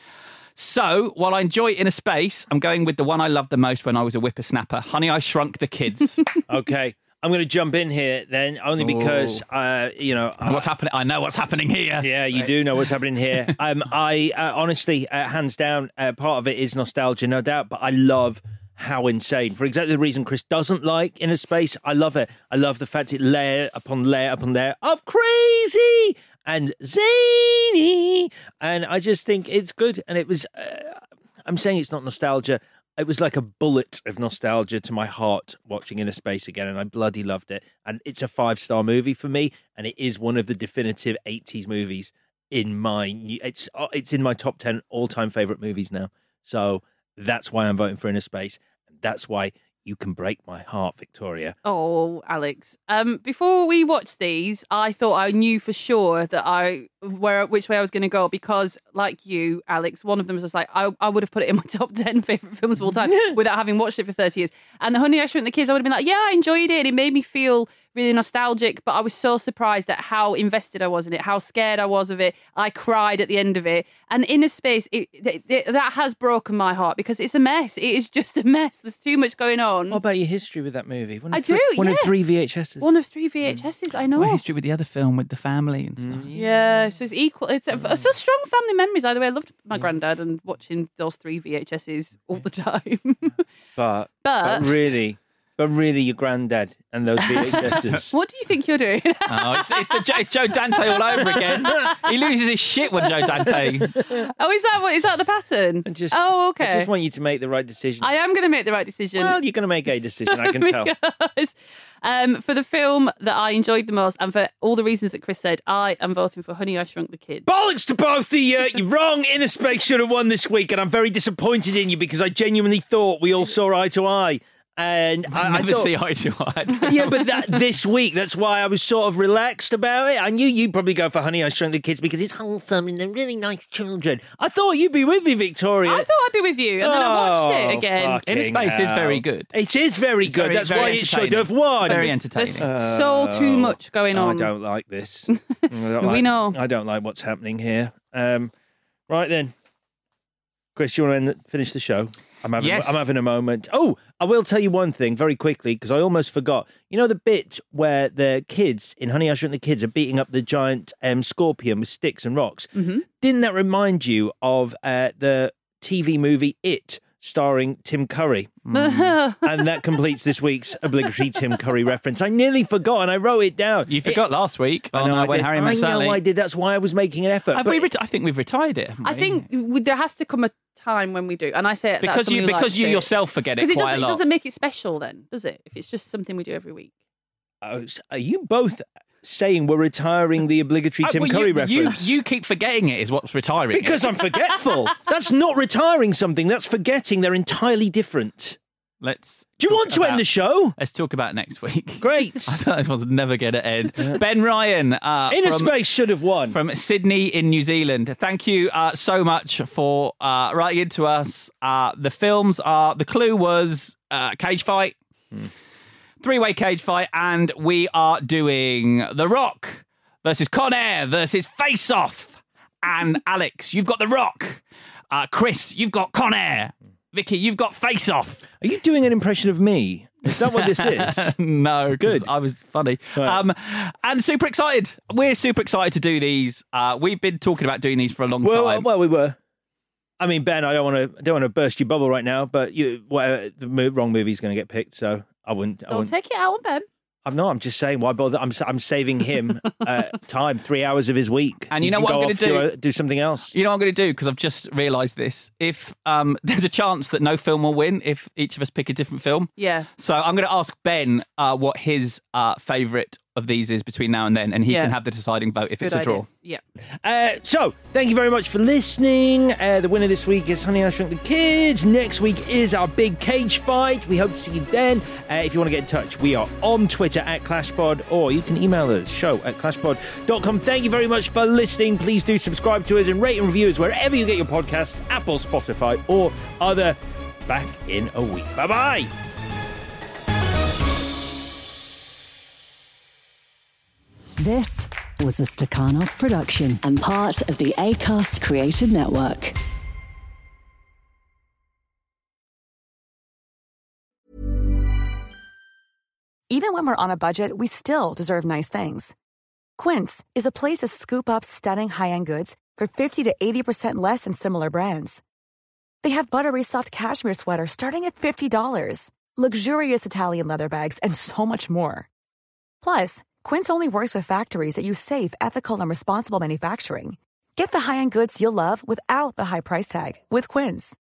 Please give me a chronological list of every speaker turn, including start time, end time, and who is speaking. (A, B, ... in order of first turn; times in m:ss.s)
0:00.6-0:06.2 A
0:06.5-0:10.6 B
0:08.8-0:09.4 A
0:10.4-0:12.5 A
0:12.0-0:51.6 B
0:51.6-1:20.0 C
1:19.9-1:22.9 B
1:21.3-1:22.1 C
1:22.8-1:24.4 C
1:24.2-1:26.3 A
1:26.1-1:26.5 B
1:26.3-1:33.4 C
1:33.8-1:38.1 B
1:34.2-1:34.8 C
1:37.2-1:40.0 C
1:39.3-1:43.9 A
1:40.8-1:41.9 C
1:44.0-1:46.9 C
1:45.8-1:48.1 B
1:48.0-1:49.4 C
1:49.2-1:50.9 B
1:50.2-1:57.4 C
1:57.4-2:05.9 B
2:05.3-2:07.2 A
2:06.8-2:16.1 B
2:15.8-2:18.2 C
2:16.8-2:28.5 B
2:18.2-2:19.5 A
2:20.2-2:22.6 A
2:20.7-2:21.0 C
2:21.8-2:24.5 C
2:25.9-2:26.6 C
2:29.1-2:29.5 B
2:30.8-2:48.7 B
2:32.6-2:33.0 A
2:42.8-2:43.0 C
2:48.7-2:49.6 C
2:49.4-2:54.2 B
2:53.9-2:56.2 A
2:54.9-2:57.9 B
2:57.5-2:59.4 A
2:59.0-3:06.9 C
3:02.0-3:04.2 A
3:07.6-3:12.1 B
3:11.0-3:14.2 A
3:13.7-3:18.6 B
3:19.0-3:25.7 A
3:19.6-3:20.8 B
3:22.0-3:22.5 B
3:25.3-3:26.6 B
3:26.5-3:34.9 A
3:36.2-3:48.4 A
3:48.6-3:51.3 B
3:50.3-3:58.9 A
3:58.4-3:59.4 B
4:00.2-4:06.1 B
4:05.9-4:06.8 C
4:07.2-4:13.5 B
4:11.7-4:12.7 A
4:13.5-4:26.2 A
4:19.6-4:19.9 C
4:24.7-4:24.9 C
4:25.8-4:26.6 C
4:27.0-4:49.1 B
4:54.4-4:59.5 D
5:06.5-5:09.1 E
5:09.8-5:15.2 E
5:16.0-5:22.1 E
5:22.8-5:31.0 E